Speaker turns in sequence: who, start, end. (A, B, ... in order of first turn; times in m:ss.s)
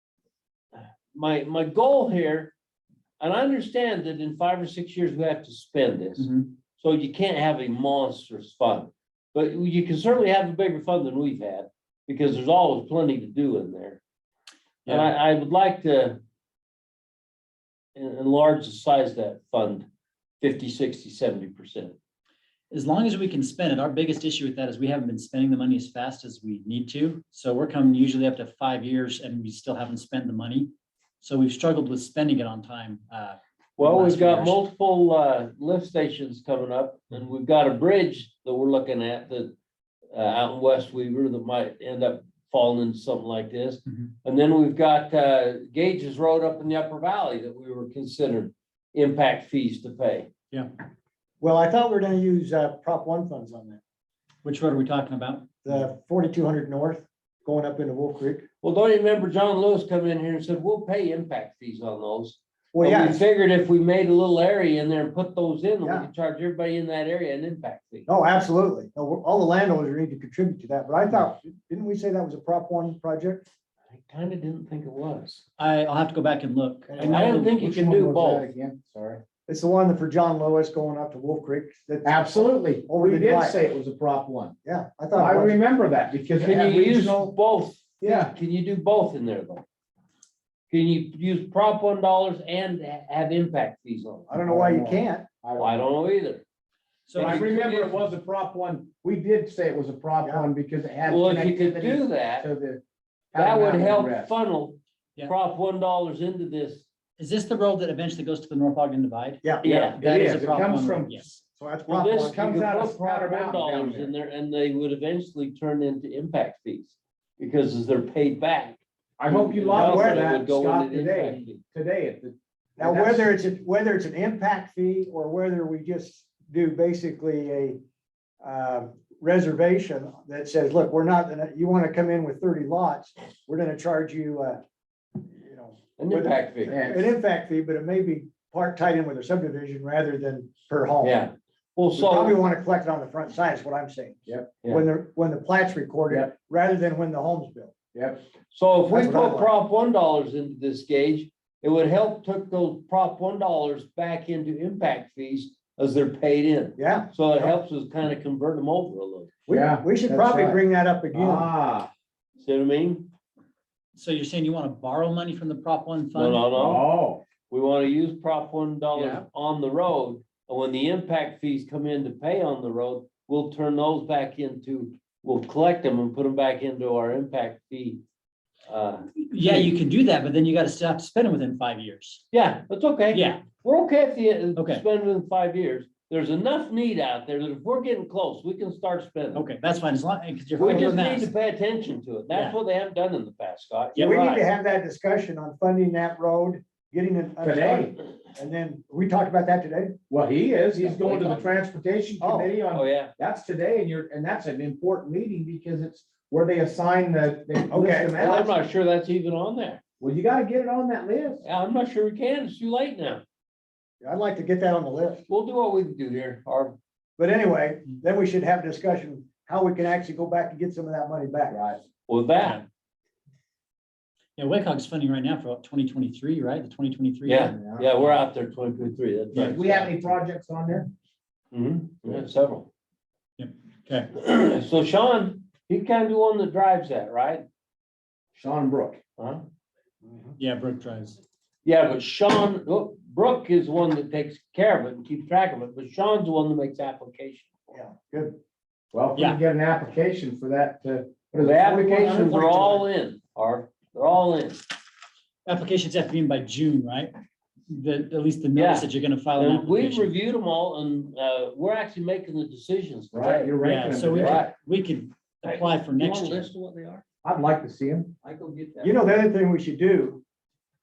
0:00.8-0:02.5 A
0:03.2-0:14.0 A
0:06.2-0:06.5 B
0:14.9-0:15.1 B
0:14.9-0:16.2 A
0:18.0-0:19.9 A
0:20.4-0:22.0 A
0:22.7-0:30.7 B
0:31.2-0:34.6 B
0:33.8-0:39.5 A
0:40.1-0:50.3 A
0:51.4-0:53.8 C
0:54.4-0:55.7 B
0:55.6-0:58.4 C
0:58.6-1:08.0 A
1:02.7-1:03.2 C
1:05.8-1:06.1 C
1:08.1-1:13.4 C
1:13.9-1:15.4 A
1:15.6-1:17.5 B
1:16.9-1:17.4 C
1:17.1-1:18.5 A
1:17.2-1:19.2 D
1:19.5-1:23.6 C
1:22.0-1:24.6 D
1:24.6-1:25.6 C
1:25.1-1:27.3 D
1:26.4-1:29.6 A
1:28.0-1:28.3 D
1:30.7-1:34.3 A
1:34.3-1:35.3 C
1:34.3-1:35.8 D
1:35.6-1:36.4 A
1:37.1-1:37.5 B
1:37.1-1:38.1 A
1:37.2-1:42.8 D
1:41.0-1:42.5 A
1:43.3-1:44.3 D
1:43.3-1:46.8 A
1:47.2-1:51.4 B
1:49.4-1:49.7 C
1:49.6-1:50.0 A
1:50.0-1:51.2 D
1:51.6-1:52.5 C
1:51.9-2:01.6 A
1:52.2-1:54.1 D
1:59.2-2:03.3 D
1:59.7-2:00.3 C
2:02.8-2:07.8 C
2:08.4-2:14.6 C
2:15.2-2:21.2 C
2:16.0-2:16.7 A
2:16.7-2:17.1 D
2:21.0-2:22.4 A
2:22.0-2:27.7 C
2:24.3-2:24.5 D
2:27.9-2:28.2 D
2:28.5-2:39.3 A
2:28.9-2:29.5 C
2:36.8-2:37.6 C
2:39.5-2:41.5 C
2:39.5-2:40.6 D
2:41.1-2:41.9 D
2:42.4-2:43.1 A
2:44.0-2:46.5 B
2:46.2-2:46.9 A
2:46.6-2:47.2 D
2:47.5-2:58.0 A
2:49.0-2:49.2 B
2:58.7-2:59.7 A
2:59.2-3:02.2 B
3:02.3-3:09.5 A
3:03.1-3:03.4 B
3:04.6-3:04.8 B
3:09.3-3:11.3 B
3:10.6-3:14.4 A
3:12.3-3:12.6 B
3:14.0-3:20.0 C
3:17.4-3:17.9 D
3:20.1-3:28.5 D
3:20.8-3:21.4 C
3:22.2-3:22.5 C
3:22.7-3:23.1 A
3:27.7-3:28.5 C
3:28.2-3:29.8 A
3:30.0-3:31.4 D
3:31.4-3:33.2 A
3:34.0-3:35.2 C
3:35.3-3:36.8 A
3:37.2-3:41.6 C
3:41.5-3:41.8 D
3:42.1-3:42.6 A
3:44.4-3:47.6 B
3:47.2-3:50.0 A
3:47.5-3:47.9 D
3:49.3-3:50.9 D
3:51.5-3:52.7 A
3:53.4-3:54.1 B
3:54.2-3:57.4 A
3:58.3-3:59.0 D
3:59.2-3:59.4 A
4:00.0-4:00.4 C
4:00.4-4:01.2 B
4:01.6-4:07.5 A
4:07.7-4:08.4 C
4:08.9-4:12.8 D
4:11.4-4:14.6 A
4:12.0-4:12.8 C
4:15.5-4:17.1 B
4:17.7-4:20.1 B
4:18.5-4:23.5 A
4:23.1-4:24.4 D
4:23.6-4:26.5 B
4:24.2-4:24.5 A
4:25.4-4:27.0 A
4:27.2-4:28.1 D
4:28.2-4:29.1 A
4:28.8-4:30.2 C